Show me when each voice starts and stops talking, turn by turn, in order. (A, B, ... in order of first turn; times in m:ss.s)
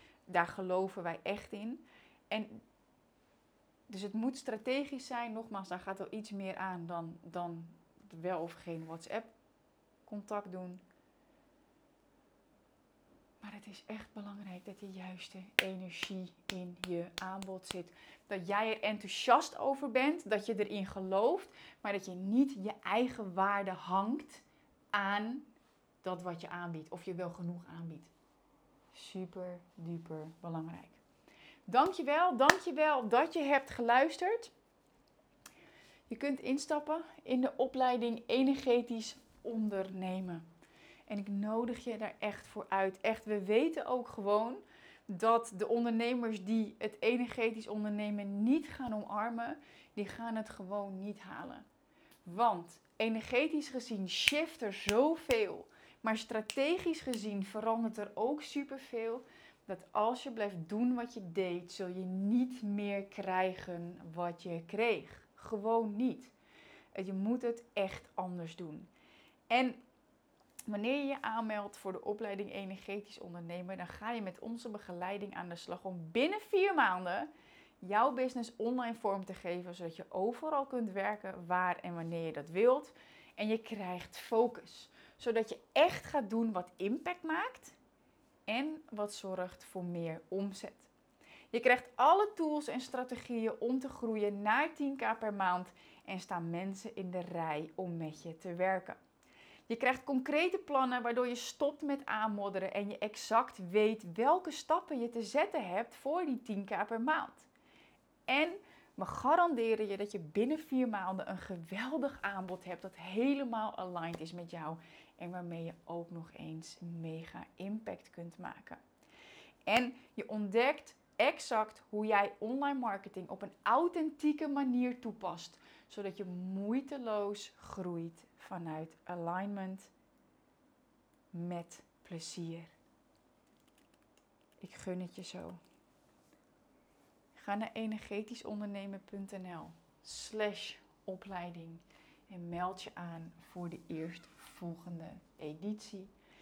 0:00.3-0:02.6 A
0:03.9-0:09.3 A
0:10.0-0:10.8 A
0:13.4-0:25.5 A
0:26.0-0:28.1 A
0:28.9-0:31.0 A
0:31.7-0:34.5 A
0:36.1-0:40.4 A
0:41.1-0:51.6 A
0:52.2-1:06.3 A
1:06.9-1:08.9 A
1:09.5-1:09.8 A
1:10.7-1:17.3 A
1:17.8-1:27.7 A
1:28.5-1:30.9 A
1:31.5-1:39.0 A
1:39.7-1:47.5 A
1:48.3-1:58.8 A
1:59.6-2:09.9 A
2:11.3-2:12.7 A
2:14.6-2:15.6 A
2:17.3-2:26.1 A